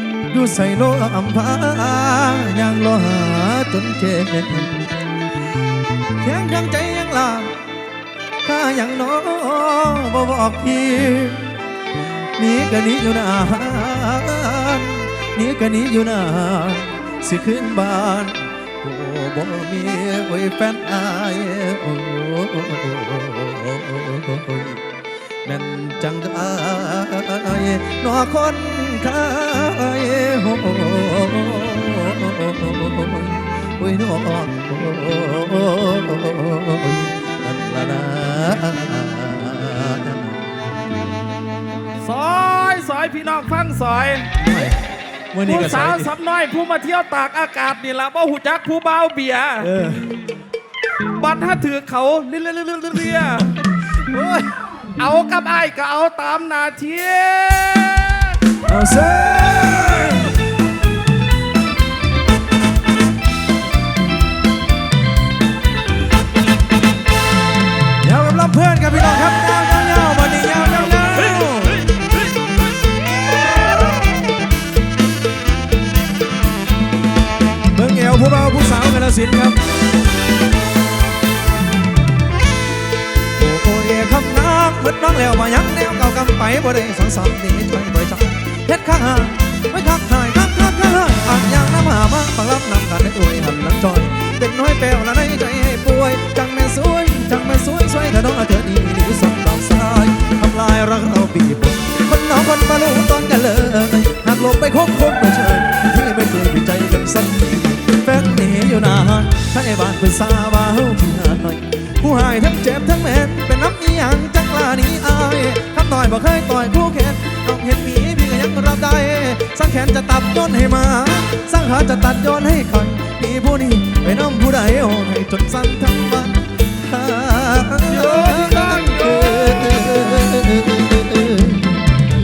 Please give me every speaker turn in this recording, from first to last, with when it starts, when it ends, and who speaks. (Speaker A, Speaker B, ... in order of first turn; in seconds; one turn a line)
Speaker A: 0.3-4.9
Speaker A: 6.2-7.5
Speaker A: 8.4-11.5
Speaker A: 12.4-24.8
Speaker A: 25.4-40.5
Speaker B: 42.0-44.3
Speaker A: 44.4-44.8
Speaker A: 45.3-46.1
Speaker B: 45.4-49.7
Speaker A: 49.6-50.0
Speaker B: 51.2-53.6
Speaker A: 54.1-54.5
Speaker B: 55.0-58.4
Speaker A: 58.6-60.4
Speaker A: 68.0-71.9
Speaker A: 77.7-79.6
Speaker A: 83.4-131.7
Speaker B: 127.9-129.8